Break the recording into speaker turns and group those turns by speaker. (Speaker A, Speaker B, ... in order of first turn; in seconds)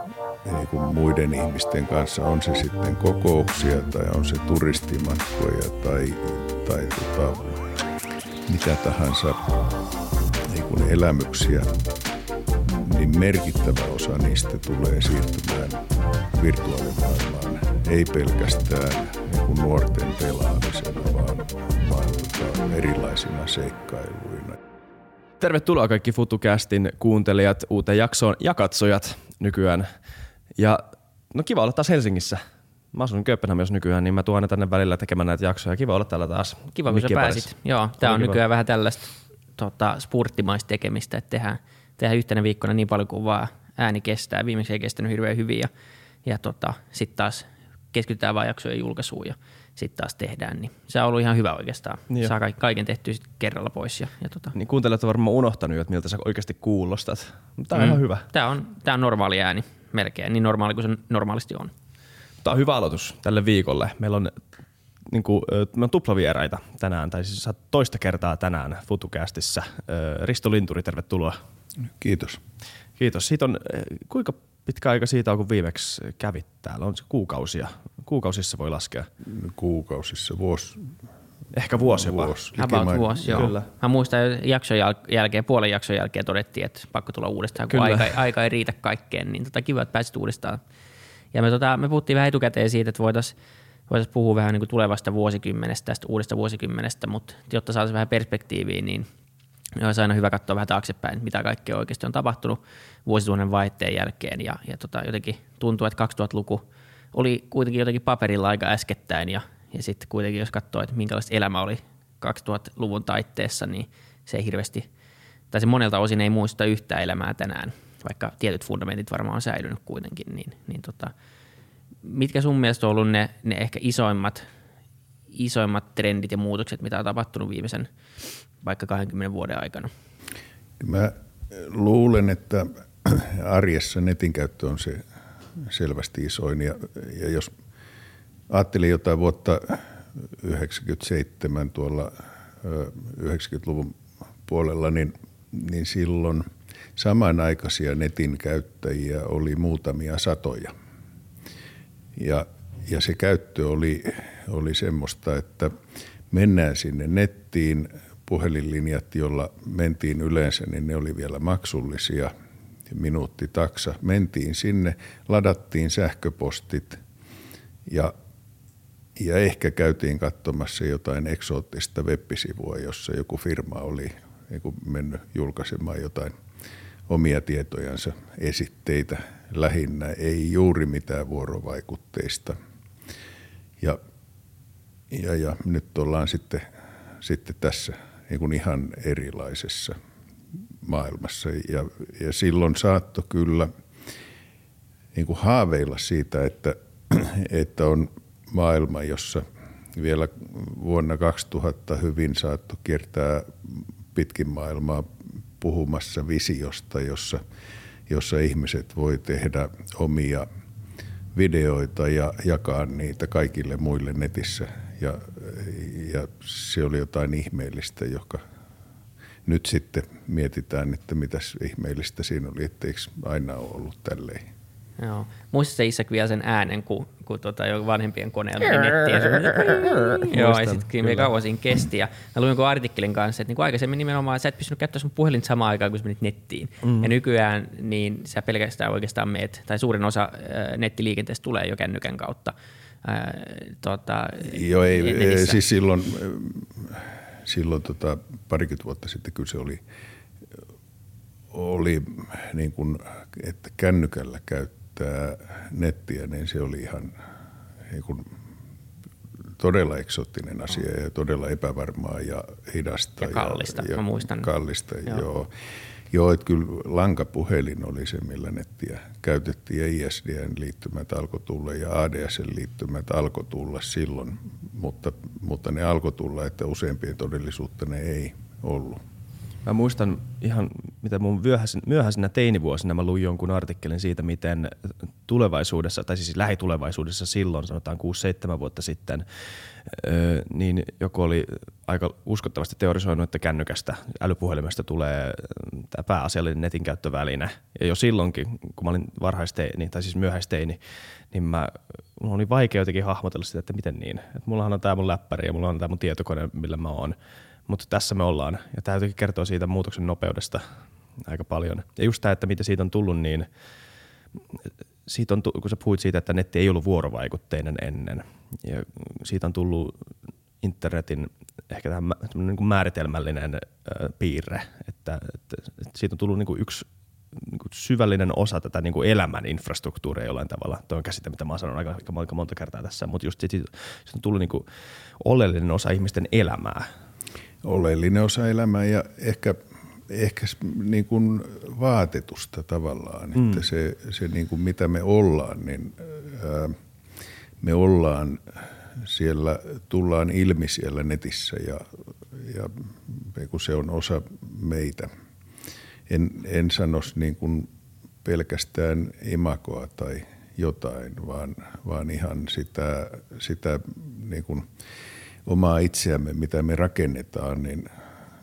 Speaker A: 0.5-7.7, 8.5-9.5, 10.5-11.7, 12.7-24.6, 72.0-72.4, 79.2-80.8, 81.8-83.5, 130.8-135.0, 135.6-137.5, 138.5-150.7, 152.2-155.7, 156.3-162.3, 162.9-167.0, 167.9-168.1, 169.2-176.3, 177.1-182.6, 185.1-186.7, 187.2-190.0, 190.8-193.7, 195.2-199.4, 200.0-205.1, 205.6-207.4, 208.1-210.5, 211.3-218.4, 219.5-224.5, 244.4-249.8, 251.5-257.1, 257.9-258.3, 259.6-265.5, 266.1-279.0, 337.6-339.6, 340.1-346.8, 347.6-348.4, 349.0-355.1, 356.1-357.7, 358.2-364.7, 365.4-367.9
Speaker B: 25.4-29.9, 31.3-32.4, 32.9-37.4, 54.6-58.2, 62.4-64.3, 65.1-71.4, 73.0-79.1, 81.5-82.3, 83.3-83.6, 87.7-88.0, 230.3-231.3, 279.6-284.7, 285.3-300.8, 301.3-307.2, 307.7-310.6, 311.2-313.5, 315.1-319.9, 320.6-334.6, 335.2-336.9
Speaker C: 36.8-45.7, 46.2-54.5, 57.7-61.7, 82.6-90.6, 91.3-93.3, 93.9-99.1, 99.8-114.9, 115.5-121.1, 122.0-124.5, 125.3-127.9, 128.6-129.9, 225.0-245.6, 263.2-264.5